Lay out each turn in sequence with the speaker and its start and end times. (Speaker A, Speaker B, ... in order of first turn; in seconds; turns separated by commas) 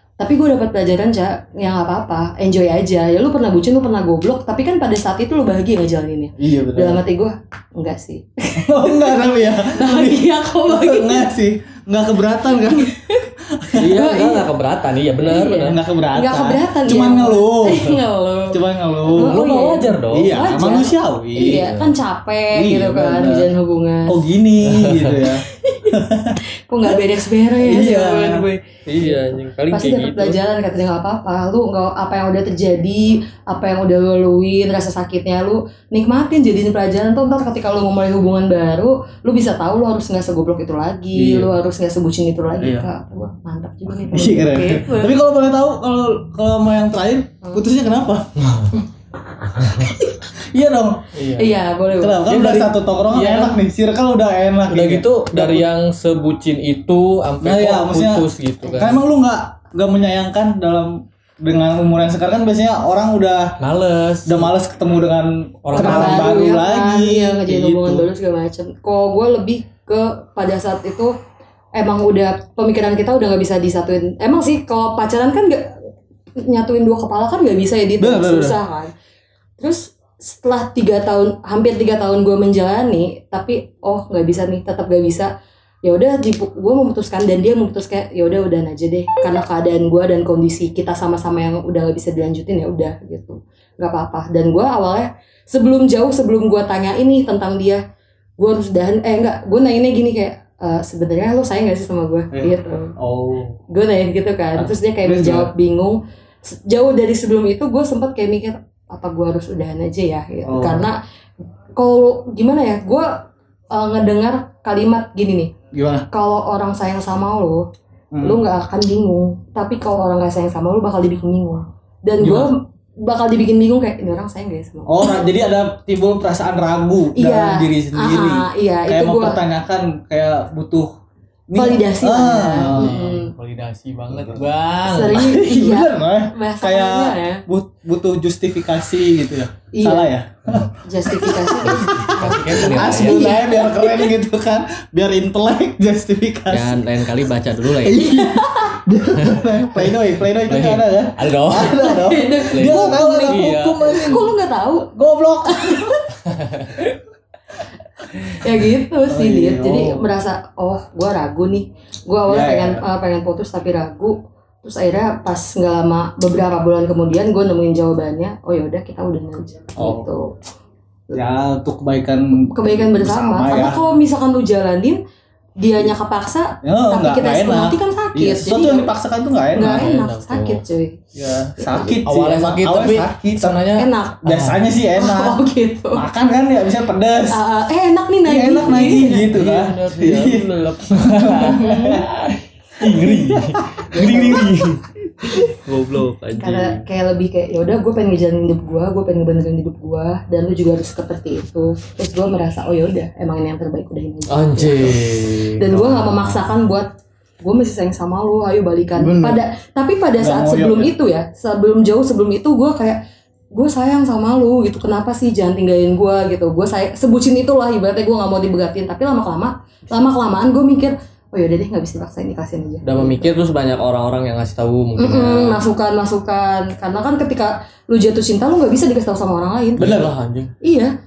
Speaker A: 0.2-11.3, Speaker B: 6.4-7.0, Speaker B: 8.6-13.9, Speaker A: 12.7-13.3, Speaker C: 13.7-15.8, Speaker A: 13.8-14.4, Speaker A: 15.2-24.2, Speaker B: 15.6-17.9, Speaker B: 18.5-19.4, Speaker C: 19.2-20.3, Speaker B: 20.1-21.7, Speaker C: 21.4-21.9, Speaker B: 22.5-23.5, Speaker B: 24.1-26.4, Speaker C: 24.6-25.1, Speaker A: 25.6-45.1, Speaker B: 27.6-28.4, Speaker C: 28.9-30.4, Speaker B: 41.1-41.5, Speaker B: 42.6-42.9, Speaker B: 44.1-48.3, Speaker C: 48.4-48.7, Speaker C: 49.6-49.9, Speaker A: 49.6-50.1, Speaker B: 50.3-51.0, Speaker C: 51.1-51.6, Speaker A: 51.4-52.6, Speaker B: 51.9-55.7, Speaker C: 52.3-53.6, Speaker C: 54.7-59.0, Speaker B: 57.4-63.6, Speaker C: 63.6-64.5, Speaker B: 64.2-68.1, Speaker C: 65.6-66.4, Speaker A: 65.7-71.1, Speaker A: 71.7-75.8, Speaker A: 76.4-78.9, Speaker B: 78.0-78.5, Speaker A: 79.6-85.3, Speaker A: 85.8-97.8, Speaker A: 98.4-102.9, Speaker B: 102.3-103.6, Speaker A: 103.7-111.0, Speaker B: 104.6-105.5, Speaker B: 110.5-110.9, Speaker A: 111.8-115.5, Speaker B: 115.7-116.0, Speaker A: 116.1-117.7, Speaker B: 118.1-118.4, Speaker A: 118.2-125.2, Speaker B: 122.2-122.5, Speaker B: 124.8-130.9, Speaker A: 127.2-129.4, Speaker B: 131.5-132.9, Speaker A: 131.6-133.3, Speaker C: 132.6-135.3, Speaker B: 134.1-134.4, Speaker A: 134.8-137.4, Speaker B: 135.1-147.1, Speaker A: 139.7-140.1, Speaker A: 140.8-144.1, Speaker C: 141.6-143.3, Speaker C: 146.5-148.2, Speaker B: 147.6-154.3, Speaker A: 147.9-148.8, Speaker C: 149.1-149.6, Speaker C: 150.4-151.9, Speaker A: 151.6-154.9, Speaker C: 152.5-154.2, Speaker B: 154.9-156.0, Speaker A: 155.4-156.1, Speaker C: 156.2-156.9, Speaker A: 158.3-170.3, Speaker B: 159.1-160.0, Speaker B: 162.3-162.8, Speaker B: 169.8-170.1, Speaker B: 171.1-173.8, Speaker A: 172.5-175.0, Speaker A: 175.6-178.9, Speaker B: 176.6-179.9, Speaker A: 179.5-181.0, Speaker C: 179.6-180.6, Speaker B: 181.1-183.6, Speaker C: 181.7-184.6, Speaker A: 183.8-186.1, Speaker B: 184.2-185.4, Speaker B: 185.9-187.4, Speaker A: 187.3-189.3, Speaker B: 188.2-192.1, Speaker C: 188.6-196.8, Speaker B: 192.8-194.8, Speaker A: 193.9-194.4, Speaker A: 196.3-205.1, Speaker C: 204.3-206.5, Speaker A: 205.6-206.9, Speaker A: 207.4-213.0, Speaker B: 209.0-209.4, Speaker B: 210.2-210.9, Speaker A: 213.5-223.3, Speaker C: 222.8-225.6, Speaker A: 225.0-229.9, Speaker B: 229.8-230.1, Speaker C: 229.8-230.5, Speaker A: 230.6-230.9